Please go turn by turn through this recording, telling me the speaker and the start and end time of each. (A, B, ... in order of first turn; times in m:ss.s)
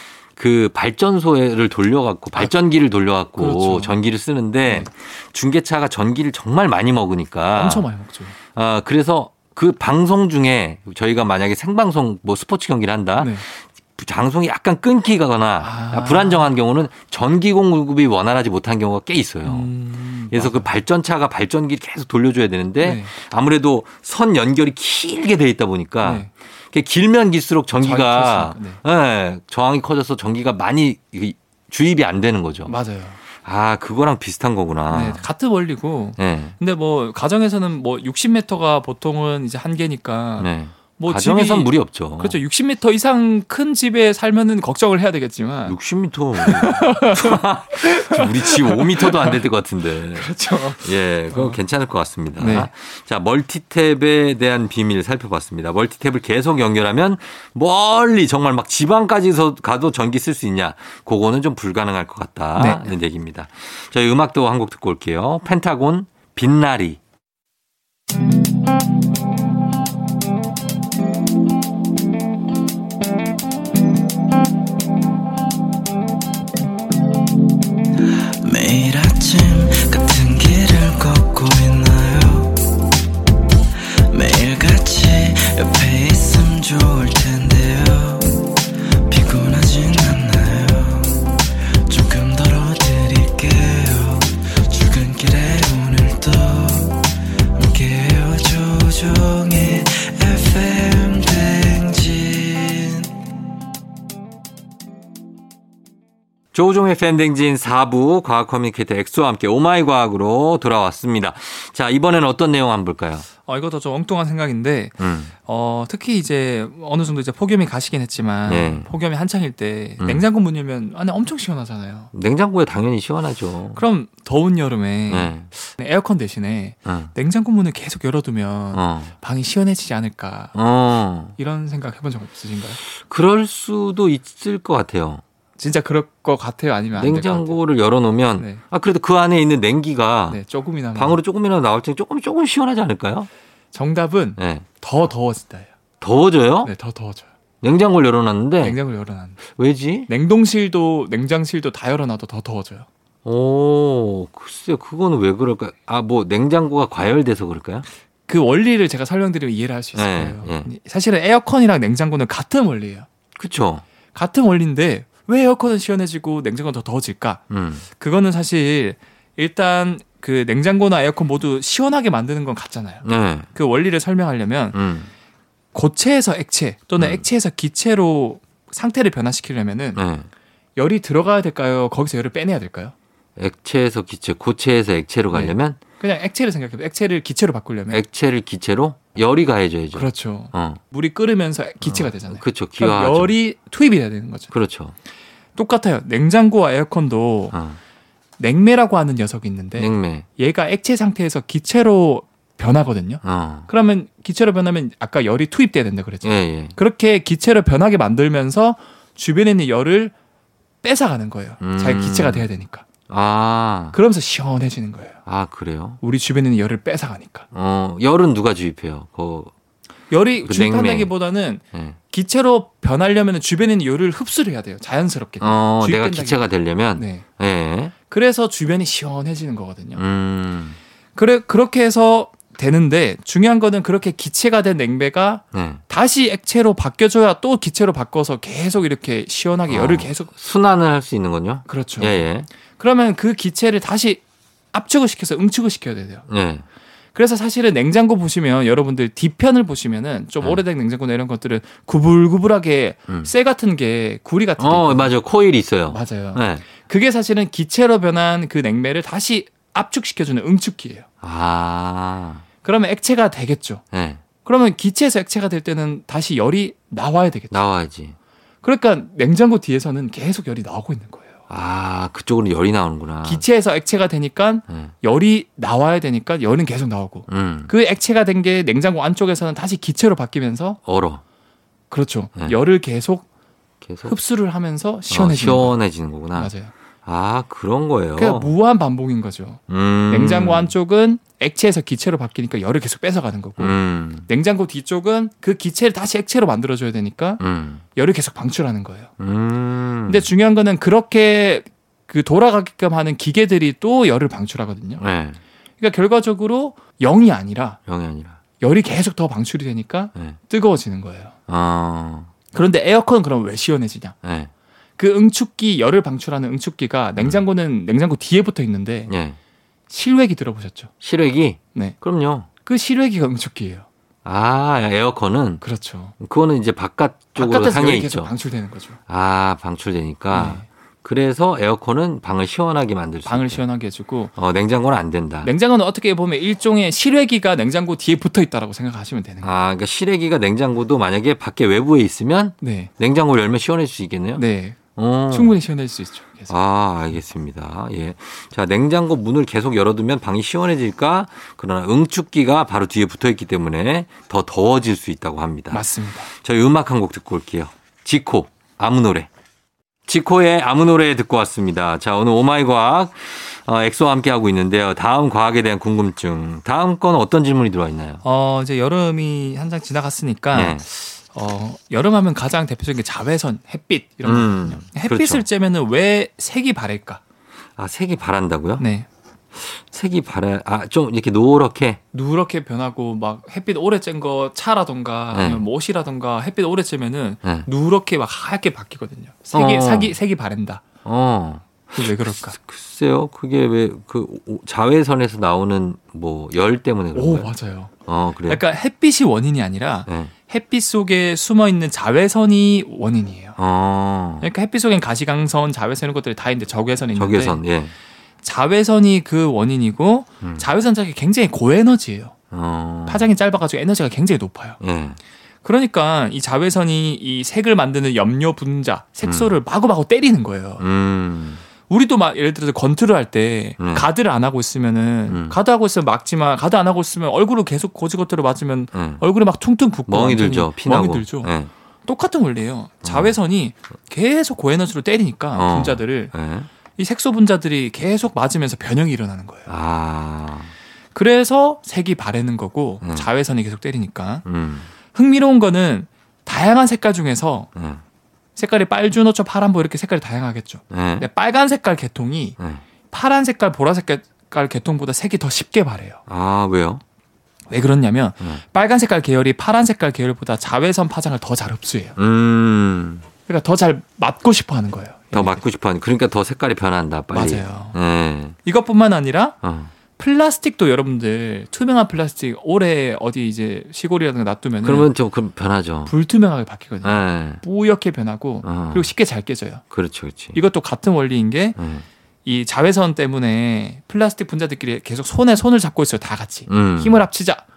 0:00.4-0:07.9 A
0:03.4-0:04.0 B
0:04.6-0:04.9 B
0:07.5-0:08.4 B
0:08.5-0:19.7 A
0:13.2-0:13.4 B
0:15.6-0:16.5 B
0:19.4-0:20.7 B
0:20.3-0:32.7 A
0:22.8-0:23.1 B
0:26.0-0:26.3 B
0:27.8-0:28.8 B
0:32.6-0:33.2 B
0:33.4-0:35.2 A
0:34.9-0:45.8 B
0:36.2-0:36.5 A
0:40.4-0:42.4 A
0:45.6-1:07.0 A
0:46.4-0:49.4 B
0:50.1-0:51.6 B
0:52.4-0:52.7 B
1:02.6-1:02.9 B
1:18.4-1:22.7 C
1:24.1-1:43.1 C
1:46.5-1:53.3 A
1:53.5-2:02.1 B
1:55.0-1:55.3 A
1:58.5-1:58.9 A
2:02.1-2:03.8 A
2:03.8-2:10.5 B
2:05.1-2:05.5 A
2:06.9-2:07.1 A
2:08.7-2:09.1 A
2:10.5-2:11.4 A
2:11.4-2:12.8 B
2:12.9-2:15.2 A
2:15.6-2:17.6 B
2:17.0-2:20.4 A
2:18.4-2:18.6 B
2:20.3-2:21.2 B
2:20.9-2:23.3 A
2:23.7-2:25.7 B
2:24.4-2:24.6 A
2:26.0-2:26.7 A
2:26.6-2:27.3 B
2:27.6-2:28.8 A
2:28.6-2:29.4 B
2:29.4-2:30.1 A
2:30.1-2:32.9 B
2:33.2-2:37.9 A
2:38.3-2:43.1 B
2:39.9-2:40.7 A
2:43.4-2:43.8 A
2:44.1-2:54.8 B
2:47.5-2:47.8 A
2:53.0-2:53.5 A
2:54.7-2:55.1 A
2:55.7-3:00.0 B
2:59.9-3:00.3 A
3:00.8-3:02.9 B
3:03.4-3:05.8 A
3:05.3-3:08.0 B
3:07.9-3:10.8 A
3:09.9-3:14.5 B
3:11.8-3:13.3 A
3:14.5-3:14.9 A
3:15.6-3:17.5 B
3:17.5-3:17.8 A
3:18.4-3:30.1 B
3:19.8-3:20.2 A
3:23.2-3:23.7 A
3:26.2-3:26.7 A
3:30.8-3:32.8 B
3:31.6-3:32.4 A
3:33.1-3:34.0 A
3:33.9-3:35.2 B
3:35.2-3:36.0 A
3:36.0-3:37.5 B
3:37.5-3:39.5 A
3:40.1-3:47.2 B
3:40.4-3:41.1 A
3:45.4-3:47.9 A
3:48.1-3:50.0 B
3:50.0-3:50.8 A
3:51.2-4:00.3 B
3:55.5-3:55.8 A
3:59.7-4:02.5 A
4:01.7-4:02.2 B
4:02.8-4:04.2 B
4:04.7-4:06.2 B
4:06.3-4:06.6 A
4:07.1-4:15.1 B
4:14.6-4:16.6 A
4:15.9-4:21.0 B
4:21.2-4:22.4 A
4:22.6-4:23.8 B
4:23.9-4:24.2 A
4:24.4-4:27.6 B
4:27.5-4:28.2 A
4:28.6-4:31.4 B
4:31.5-4:33.4 A
4:33.2-4:40.8 B
4:34.7-4:34.9 A
4:37.3-4:37.7 A
4:40.8-4:41.2 A
4:41.9-4:43.2 B
4:43.8-4:44.2 A
4:44.0-4:45.8 B
4:45.1-4:46.5 A
4:46.3-4:46.7 B
4:47.0-4:48.5 A
4:48.2-4:53.8 B
4:49.7-4:50.7 A
4:53.6-4:54.3 A
4:54.2-4:57.4 B
4:57.4-4:57.8 A
4:58.0-4:59.1 B
4:59.2-5:00.3 A
5:00.1-5:05.0 B
5:05.0-5:05.4 A
5:05.8-5:07.8 B
5:07.9-5:08.4 A
5:08.6-5:11.3 B
5:11.5-5:12.3 A
5:12.5-5:14.2 B
5:14.2-5:14.5 A
5:15.0-5:19.1 B
5:19.1-5:19.4 A
5:19.9-5:20.9 B
5:21.0-5:22.5 A
5:22.6-5:23.8 B
5:24.2-5:25.6 A
5:25.6-5:26.2 B
5:26.2-5:28.3 A
5:27.4-5:29.0 B
5:29.1-5:33.6 A
5:30.3-5:30.7 B
5:33.2-5:34.3 B
5:34.4-5:35.5 A
5:35.4-5:39.5 B
5:39.4-5:44.4 A
5:42.6-5:42.9 B
5:44.4-5:44.8 B
5:45.0-5:45.6 A
5:45.3-5:46.5 B
5:46.5-5:59.3 A
5:55.7-5:56.3 B
6:00.1-6:08.2 A
6:08.2-6:17.2 B
6:10.5-6:10.8 A
6:14.2-6:15.4 A
6:17.8-6:18.8 A
6:18.8-6:19.1 B
6:19.5-6:22.0 A
6:22.1-6:30.8 B
6:25.3-6:25.6 A
6:29.5-6:30.2 A
6:31.0-6:37.5 A
6:31.9-6:32.6 B
6:37.2-6:37.9 B
6:38.0-6:38.6 A
6:38.5-6:43.6 B
6:40.1-6:40.3 A
6:43.6-6:44.5 A
6:44.4-6:47.6 B
6:47.2-6:47.9 A
6:48.4-6:52.3 B
6:50.4-6:50.7 A
6:52.5-6:53.3 A
6:53.1-6:54.8 B
6:54.8-6:55.2 A
6:55.6-7:00.8 B
6:59.2-6:59.6 A
7:00.8-7:01.6 A
7:01.9-7:11.5 B
7:03.8-7:04.1 A
7:05.3-7:05.6 A
7:08.9-7:09.2 A
7:10.1-7:11.7 A
7:12.0-7:16.3 B
7:13.0-7:13.3 A
7:15.5-7:16.7 A
7:17.0-7:19.7 B
7:19.7-7:20.7 A
7:21.1-7:24.4 B
7:23.0-7:23.3 A
7:24.5-7:24.9 A
7:25.1-7:27.7 B
7:27.8-7:28.0 A
7:28.6-7:32.6 B
7:30.9-7:31.3 A
7:32.6-7:32.8 A
7:33.1-7:36.2 B
7:36.3-7:37.0 A
7:37.7-7:42.2 B
7:42.2-7:43.2 A
7:43.5-7:45.6 B
7:45.3-7:48.6 A
7:47.3-7:48.0 B
7:48.6-7:49.6 B
7:49.6-7:49.9 A
7:50.2-7:55.1 B
7:54.8-7:56.1 A
7:56.0-7:59.8 B
7:57.0-7:57.6 A
7:58.6-7:59.1 A
7:59.9-8:00.6 A
8:00.5-8:01.8 B
8:01.8-8:02.0 A
8:02.4-8:07.6 B
8:06.7-8:07.2 A